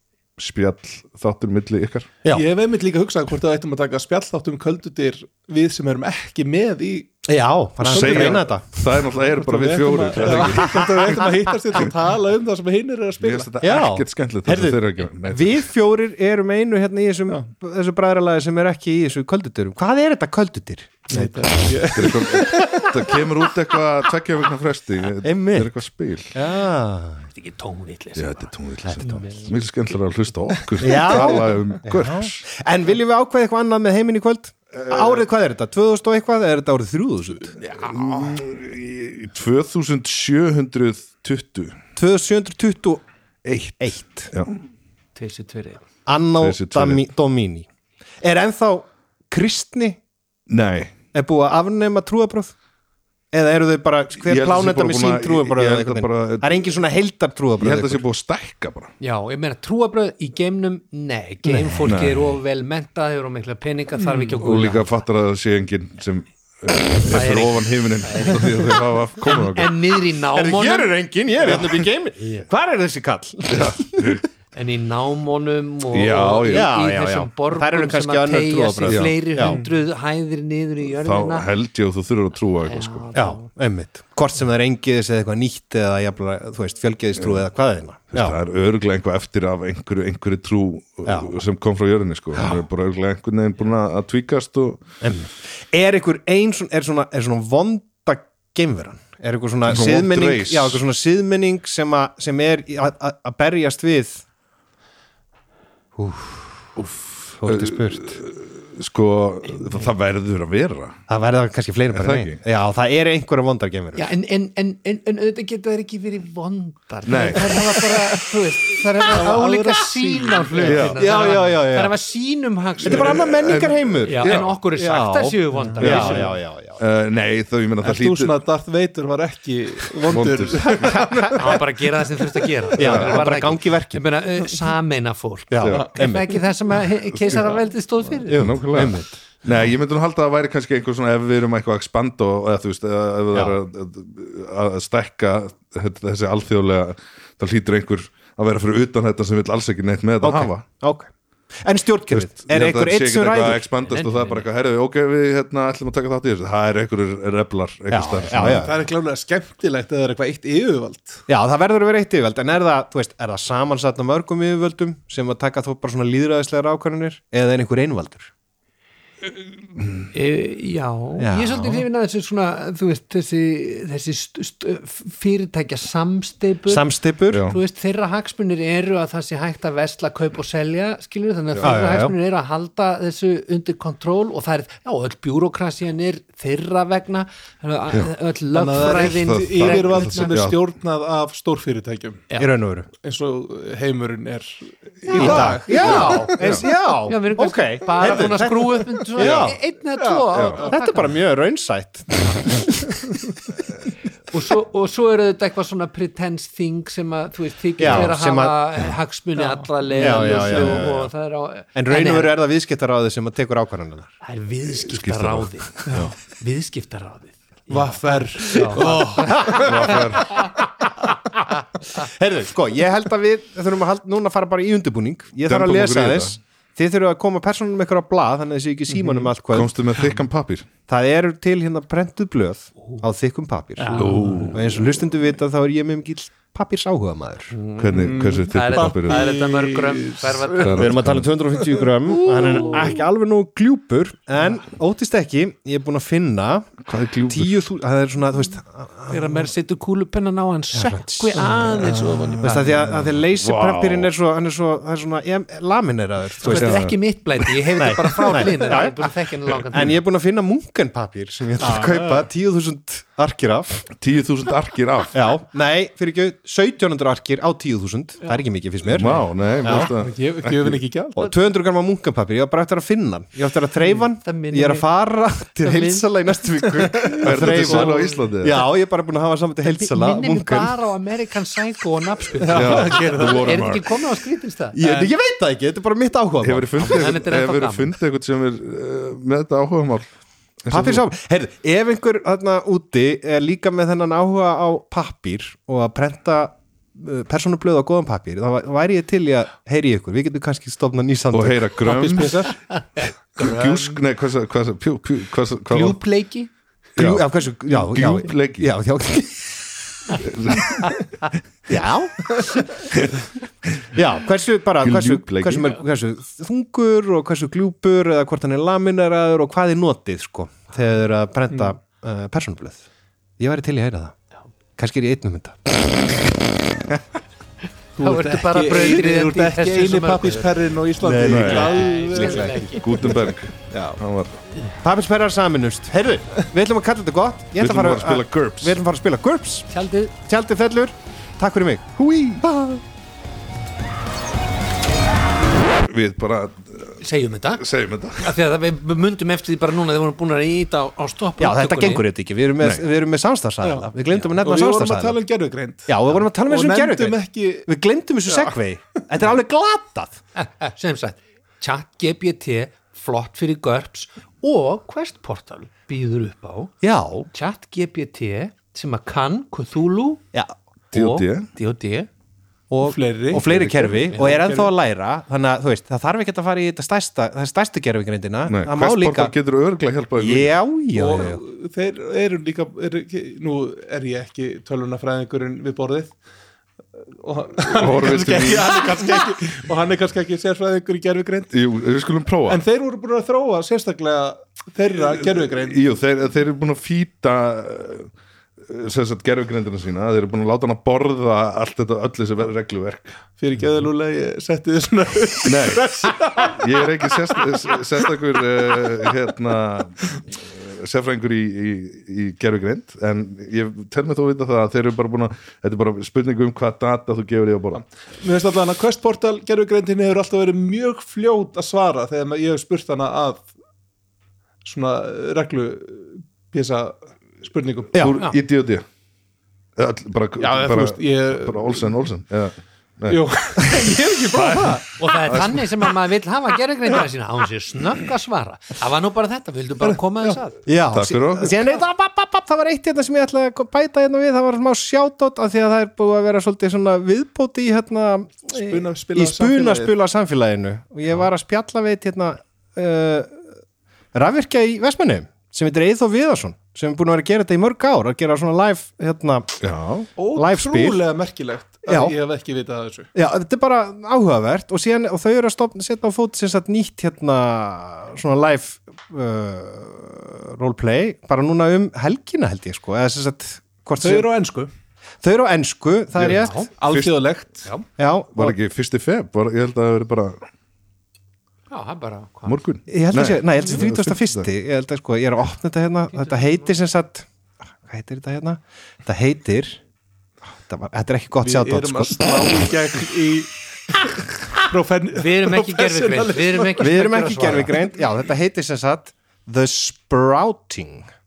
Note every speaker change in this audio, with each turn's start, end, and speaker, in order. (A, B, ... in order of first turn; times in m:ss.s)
0:00.4-0:02.1 A
0:02.3-0:07.1 B
0:07.3-0:08.8 C
0:07.8-0:08.4 B
0:07.8-0:11.9 A
0:09.2-0:13.5 B
0:10.3-0:11.3 C
0:13.2-0:15.6 A
0:13.6-0:22.9 C
0:21.1-0:23.0 B
0:21.9-0:26.3 A
0:25.2-0:25.7 C
0:26.3-0:27.3 C
0:27.3-0:29.5 D
0:28.2-0:32.4 A
0:30.8-0:37.6 C
0:34.7-0:35.2 A
0:37.7-0:41.8 A
0:42.0-0:43.0 C
0:43.4-0:44.6 A
0:43.8-0:44.3 C
0:45.1-0:45.8 D
0:46.0-0:47.6 C
0:46.4-0:47.0 A
0:48.2-0:50.0 C
0:50.5-0:50.9 A
0:51.1-0:52.5 C
0:53.3-0:58.0 C
0:54.2-0:56.7 A
0:57.6-0:58.9 A
0:59.0-1:04.9 D
1:01.5-1:01.9 C
1:01.8-1:02.4 A
1:04.0-1:04.4 B
1:04.4-1:09.8 A
1:07.1-1:08.6 D
1:09.2-1:11.0 D
1:10.3-1:14.2 C
1:13.5-1:14.2 A
1:14.5-1:21.5 D
1:15.9-1:16.7 A
1:16.4-1:19.6 C
1:18.9-1:19.1 A
1:19.4-1:19.7 B
1:20.9-1:23.1 A
1:22.6-1:23.5 D
1:23.1-1:28.4 C
1:28.1-1:34.8 A
1:31.0-1:31.3 C
1:35.0-1:44.2 C
1:39.7-1:40.8 A
1:46.0-1:46.7 C
1:46.8-1:51.0 A
1:47.4-1:48.2 C
1:51.1-1:54.1 C
1:51.9-1:52.4 A
1:53.9-2:03.2 D
1:57.0-1:57.6 A
1:59.1-2:00.9 B
2:00.6-2:01.0 A
2:00.8-2:01.9 C
2:02.8-2:04.5 A
2:02.8-2:06.8 C
2:04.0-2:06.4 D
2:05.6-2:06.3 B
2:06.8-2:08.4 A
2:07.8-2:11.6 B
2:10.0-2:11.0 A
2:10.9-2:11.3 C
2:11.2-2:18.5 D
2:12.7-2:14.0 C
2:12.8-2:13.1 A
2:15.5-2:16.4 C
2:18.3-2:19.1 C
2:18.3-2:30.6 A
2:30.2-2:31.1 C
2:31.6-2:33.6 C
2:32.1-2:38.7 A
2:33.8-2:34.5 D
2:37.9-2:38.8 C
2:38.3-2:41.2 B
2:41.3-2:48.3 C
2:49.8-2:50.1 A
2:50.1-2:56.8 D
2:51.2-2:51.8 C
2:56.7-2:57.4 C
2:57.3-2:57.6 A
2:57.4-3:10.4 D
3:01.6-3:02.1 C
3:08.5-3:12.2 B
3:09.0-3:10.6 A
3:12.4-3:12.9 C
3:13.0-3:16.5 B
3:15.1-3:21.1 D
3:15.1-3:19.6 C
3:15.2-3:16.6 A
3:19.2-3:19.6 A
3:20.0-3:20.6 B
3:20.3-3:20.6 A
3:20.7-3:23.0 C
3:24.3-3:32.3 D
3:27.8-3:28.6 C
3:29.4-3:30.8 B
3:29.9-3:31.1 C
3:31.7-3:34.1 C
3:34.2-3:40.0 D
3:34.9-3:36.1 A
3:37.7-3:40.0 B
3:38.8-3:40.4 C
3:39.5-3:40.4 A
3:41.0-3:49.7 C
3:45.5-3:46.4 A
3:48.9-3:49.3 B
3:49.5-3:50.7 A
3:50.9-3:57.5 C
3:53.8-3:54.4 D
3:53.8-3:54.5 B
3:54.0-3:54.8 A
3:57.5-4:01.0 D
3:57.8-3:59.2 A
3:57.9-4:00.8 B
4:00.6-4:01.3 A
4:00.6-4:09.4 C
4:02.2-4:03.0 D
4:06.8-4:07.6 A
4:09.1-4:12.8 D
4:10.7-4:16.9 C
4:12.2-4:14.1 A
4:16.4-4:20.0 D
4:16.4-4:17.0 A
4:17.8-4:23.9 C
4:21.6-4:22.3 B
4:24.0-4:25.2 A
4:25.1-4:29.9 C
4:28.9-4:30.8 A
4:29.6-4:31.2 B
4:31.2-4:40.7 C
4:34.2-4:34.9 D
4:35.6-4:36.1 D
4:36.9-4:37.8 B
4:37.2-4:38.6 A
4:39.7-4:45.1 D
4:42.4-4:43.6 B
4:42.5-4:44.0 A
4:44.7-4:47.1 C
4:46.4-4:50.1 A
4:46.8-4:48.0 D
4:50.6-4:51.0 A
4:50.7-5:01.7 C
5:01.3-5:02.5 A
5:01.8-5:02.5 B
5:02.2-5:04.0 D
5:03.4-5:06.0 A
5:05.7-5:06.5 D
5:07.0-5:08.7 A
5:07.0-5:10.2 C
5:10.2-5:11.0 A
5:11.7-5:12.4 C
5:12.9-5:13.9 A
5:13.9-5:22.8 C
5:14.8-5:15.8 A
5:23.4-5:24.2 C
5:24.8-5:26.8 C
5:28.0-5:33.2 B
5:28.0-5:30.6 D
5:31.0-5:32.5 C
5:31.2-5:31.7 A
5:31.4-5:33.2 D
5:32.7-5:34.4 A
5:33.7-5:34.0 C
5:34.8-5:42.8 C
5:37.6-5:38.8 A
5:39.7-5:40.1 D
5:42.0-5:42.4 A
5:45.8-5:47.0 A
5:47.0-5:52.0 D
5:47.6-5:48.3 A
5:51.4-5:55.2 C
5:53.6-5:57.7 B
5:55.9-6:00.2 C
5:58.2-5:58.6 B
6:00.4-6:06.7 D
6:06.8-6:07.3 C
6:07.3-6:10.2 D
6:10.9-6:12.1 D
6:10.9-6:11.5 A
6:12.7-6:19.3 C
6:12.8-6:14.7 B
6:18.5-6:20.5 A
6:20.2-6:21.4 C
6:20.9-6:26.2 B
6:26.9-6:31.5 B
6:27.7-6:28.9 A
6:31.5-6:32.6 A
6:32.4-6:35.8 B
6:35.2-6:43.1 A
6:43.4-6:47.8 B
6:45.4-6:57.8 A
6:57.7-7:03.5 B
7:04.6-7:08.1 B
7:08.0-7:08.8 A
7:09.8-7:13.2 A
7:10.4-7:12.0 B
7:13.1-7:15.0 B
7:14.3-7:15.6 A
7:15.0-7:20.6 D
7:20.7-7:33.4 C
7:20.9-7:21.7 A
7:28.5-7:29.9 B
7:34.1-7:39.6 C
7:39.6-7:40.1 A
7:40.2-7:43.1 B
7:40.3-7:41.0 C
7:41.8-7:42.1 C
7:43.1-7:54.3 C
7:54.0-7:54.7 B
7:55.2-7:56.6 C
7:56.2-7:57.7 B
7:56.2-7:56.7 D
7:56.8-7:57.2 A
7:58.0-7:58.6 C
7:58.3-8:00.4 A
8:01.7-8:02.6 D
8:02.4-8:04.5 A
8:02.9-8:07.2 C
8:06.1-8:06.7 D
8:07.8-8:09.8 C
8:10.6-8:12.6 C
8:11.4-8:16.9 B
8:15.1-8:17.8 D
8:16.8-8:21.1 C